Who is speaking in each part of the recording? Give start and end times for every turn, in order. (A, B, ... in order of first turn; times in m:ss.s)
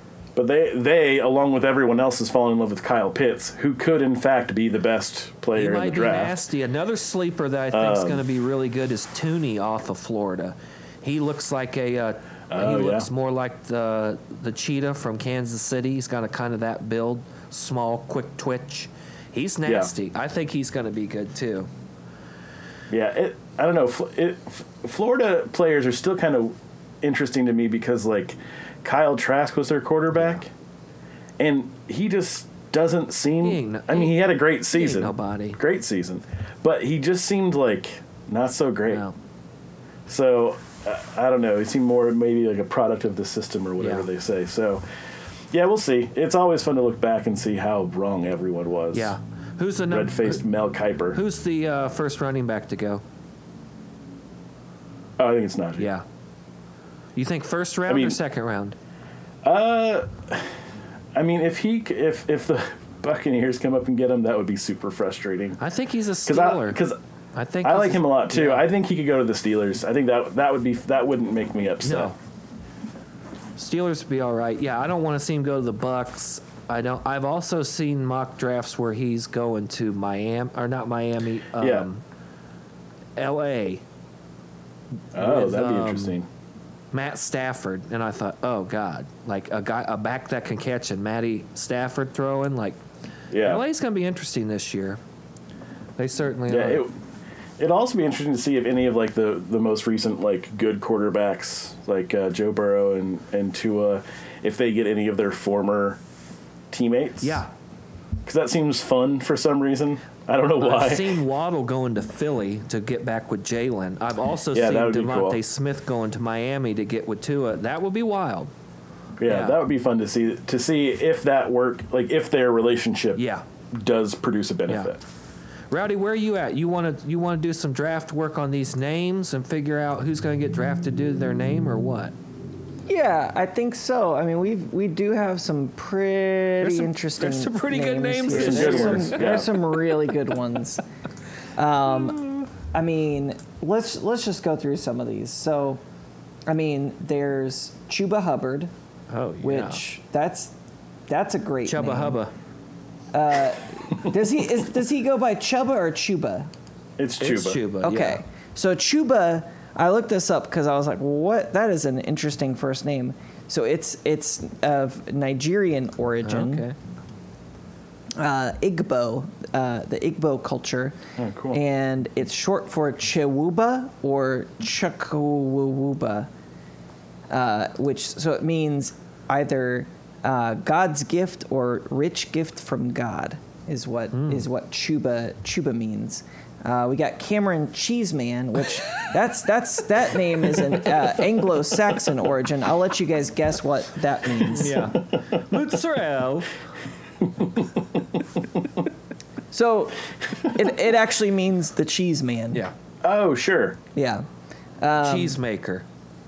0:00.4-0:06.4 A
0:05.6-0:21.7 B
0:07.7-0:08.2 A
0:12.5-0:13.1 A
0:19.6-0:19.9 A
0:22.9-0:30.5 A
0:31.4-0:39.0 A
0:33.4-0:35.6 B
0:38.9-0:39.2 B
0:40.1-0:44.8 A
0:43.8-0:44.1 B
0:45.5-0:49.2 A
0:48.9-0:50.4 B
0:49.9-0:51.2 A
0:51.1-0:53.0 B
0:55.2-0:55.9 A
0:55.8-0:56.0 B
0:57.2-0:58.8 B
0:57.9-0:58.2 A
0:59.4-1:00.5 A
1:01.2-1:05.6 A
1:05.6-1:06.8 B
1:06.3-1:07.0 A
1:07.4-1:08.7 B
1:07.6-1:12.1 A
1:11.8-1:12.2 B
1:13.6-1:22.0 B
1:21.6-1:21.9 A
1:23.2-1:23.8 B
1:25.1-1:26.2 B
1:25.1-1:26.3 A
1:26.9-1:32.8 B
1:33.3-1:33.6 A
1:33.4-1:35.0 B
1:36.0-1:36.9 B
1:36.5-1:36.9 A
1:37.6-1:46.0 A
1:46.7-1:47.4 A
1:47.2-1:47.5 B
1:48.3-1:51.2 A
1:50.6-1:58.5 B
1:54.5-1:55.4 A
1:59.2-2:05.0 A
1:59.2-1:59.6 B
2:03.2-2:03.4 B
2:04.7-2:04.9 B
2:05.7-2:12.2 B
2:12.9-2:20.8 C
2:16.6-2:19.4 B
2:18.3-2:19.5 A
2:21.6-2:25.8 C
2:22.1-2:22.4 B
2:26.5-2:28.7 C
2:29.1-2:29.8 B
2:29.4-2:30.5 C
2:31.1-2:32.2 C
2:31.6-2:32.3 B
2:33.1-2:36.5 C
2:37.0-2:37.6 A
2:37.2-2:38.2 B
2:37.8-2:46.7 C
2:46.2-2:46.8 B
2:48.2-2:51.0 C
2:51.2-2:51.6 A
2:51.5-2:56.3 C
2:57.3-3:14.9 C
3:14.4-3:16.5 B
3:19.5-3:22.6 C
3:23.0-3:23.8 A
3:24.0-3:24.3 C
3:24.8-3:25.4 C
3:25.0-3:25.8 B